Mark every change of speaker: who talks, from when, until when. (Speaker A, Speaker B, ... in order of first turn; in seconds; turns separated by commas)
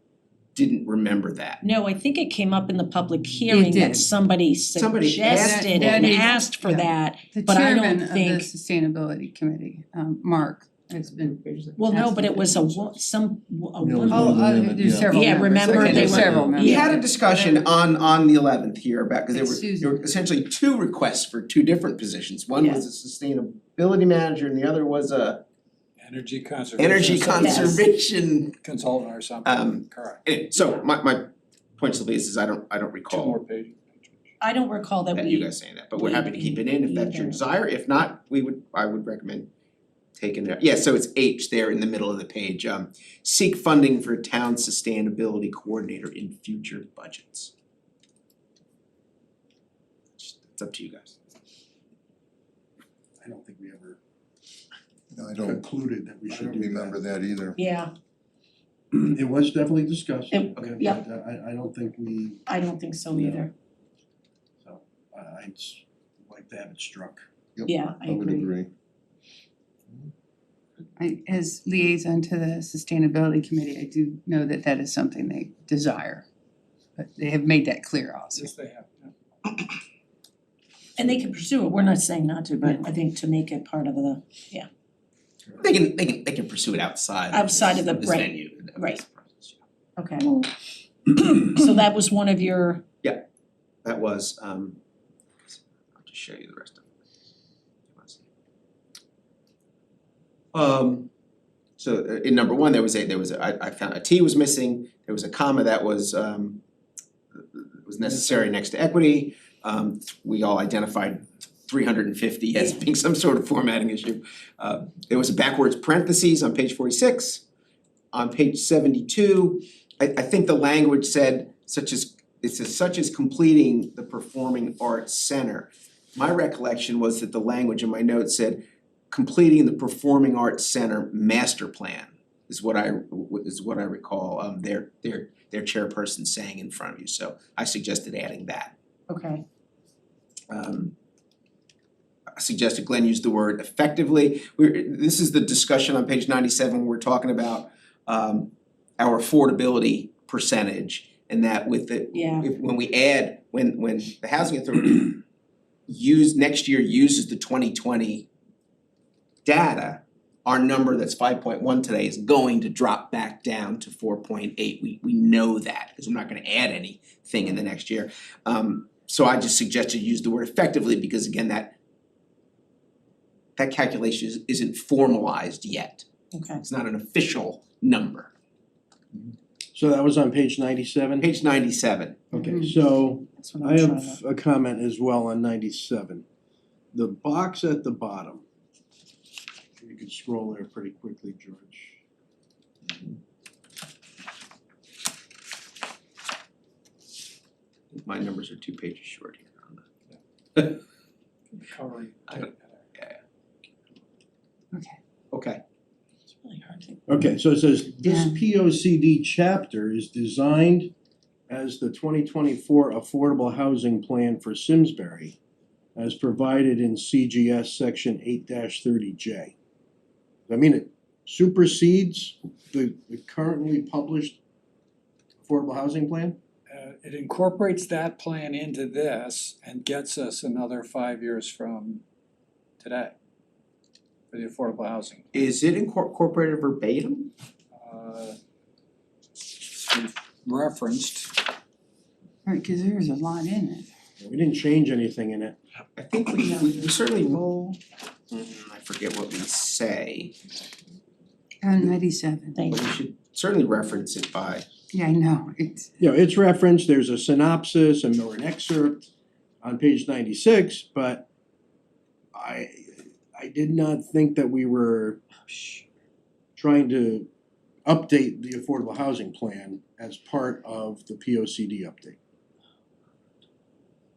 Speaker A: 0.5-1.6, Speaker B: 1.6-8.5, Speaker C: 3.5-4.1, Speaker A: 4.7-6.3, Speaker C: 5.3-12.8, Speaker B: 11.8-17.0, Speaker D: 13.8-16.6, Speaker C: 14.1-17.6, Speaker A: 15.8-25.4, Speaker C: 19.3-20.1, Speaker B: 22.6-22.8, Speaker E: 26.0-27.8, Speaker A: 26.8-28.6, Speaker B: 27.2-27.8, Speaker E: 28.6-30.2, Speaker A: 29.4-33.4, Speaker E: 33.1-34.3, Speaker B: 34.4-37.4, Speaker A: 35.1-39.5, Speaker A: 40.1-47.5, Speaker A: 50.2-51.2, Speaker F: 53.2-54.0, Speaker D: 55.1-55.6, Speaker F: 55.4-57.0, Speaker D: 56.3-57.6, Speaker B: 57.6-57.9, Speaker F: 58.9-62.5, Speaker B: 60.3-61.0, Speaker B: 62.5-63.5, Speaker F: 63.1-63.5, Speaker F: 64.6-67.2, Speaker D: 67.6-68.7, Speaker B: 67.7-68.5, Speaker C: 71.0-76.2, Speaker C: 77.0-78.5, Speaker E: 78.3-79.1, Speaker B: 81.0-84.7, Speaker A: 85.6-89.6, Speaker B: 87.3-89.0, Speaker B: 90.0-90.5, Speaker B: 91.0-92.8, Speaker A: 93.8-94.8, Speaker A: 95.5-96.9, Speaker A: 97.9-98.2, Speaker A: 100.5-101.1, Speaker A: 101.8-106.6, Speaker A: 107.3-117.4, Speaker A: 118.1-138.7, Speaker B: 139.1-139.4, Speaker A: 140.5-140.9, Speaker A: 142.4-155.2, Speaker B: 152.1-152.5, Speaker A: 155.9-158.3, Speaker A: 159.4-171.7, Speaker A: 173.6-178.3, Speaker B: 176.3-176.6, Speaker F: 179.7-181.3, Speaker A: 181.2-182.3, Speaker B: 182.3-182.6, Speaker F: 182.3-186.2, Speaker B: 183.4-184.2, Speaker F: 186.9-188.4, Speaker F: 189.8-192.0, Speaker A: 197.9-199.8, Speaker E: 201.5-202.8, Speaker A: 202.3-203.2, Speaker C: 204.7-205.0, Speaker A: 205.3-205.6, Speaker B: 206.4-207.0, Speaker F: 207.1-210.9, Speaker C: 208.0-208.3, Speaker F: 211.5-215.3, Speaker F: 215.9-219.5, Speaker F: 220.5-224.4, Speaker F: 225.4-226.4, Speaker E: 226.7-232.0, Speaker E: 232.8-233.2, Speaker E: 234.3-235.3, Speaker A: 235.3-237.3, Speaker E: 237.7-238.4, Speaker E: 239.4-241.4, Speaker C: 242.4-243.9, Speaker F: 244.2-245.6, Speaker A: 245.9-247.8, Speaker A: 248.3-250.4, Speaker C: 251.6-252.6, Speaker B: 252.5-252.9, Speaker A: 252.7-254.7, Speaker C: 254.9-255.9, Speaker F: 256.0-259.1, Speaker F: 259.6-261.2, Speaker F: 262.3-265.2, Speaker F: 266.6-267.3, Speaker F: 267.9-272.2